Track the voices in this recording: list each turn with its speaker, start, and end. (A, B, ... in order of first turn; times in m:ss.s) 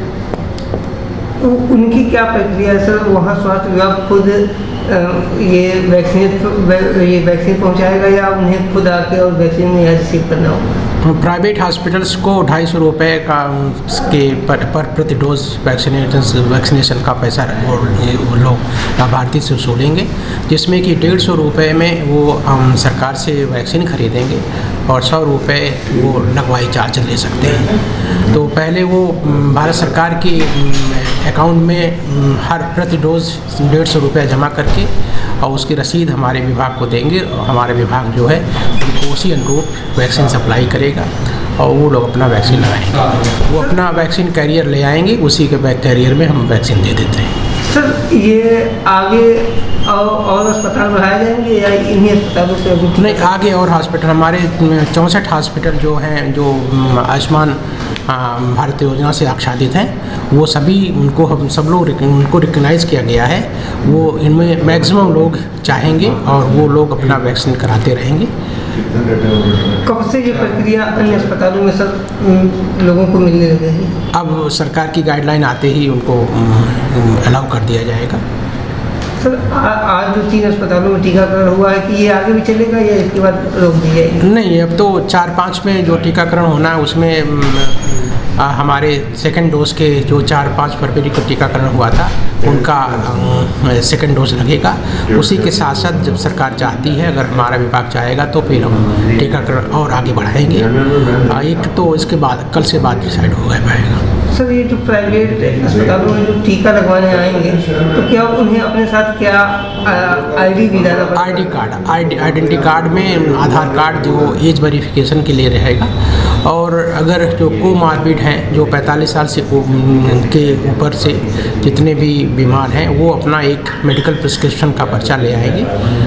0:01.4-0:10.6 A
0:11.0-0:34.9 B
0:35.4-0:47.3 B
0:47.7-0:53.0 A
0:53.0-1:08.3 B
1:09.8-1:13.9 A
1:14.1-1:18.2 B
1:19.2-1:24.1 A
1:24.2-1:44.0 B
1:44.3-1:51.5 A
1:51.1-2:05.7 B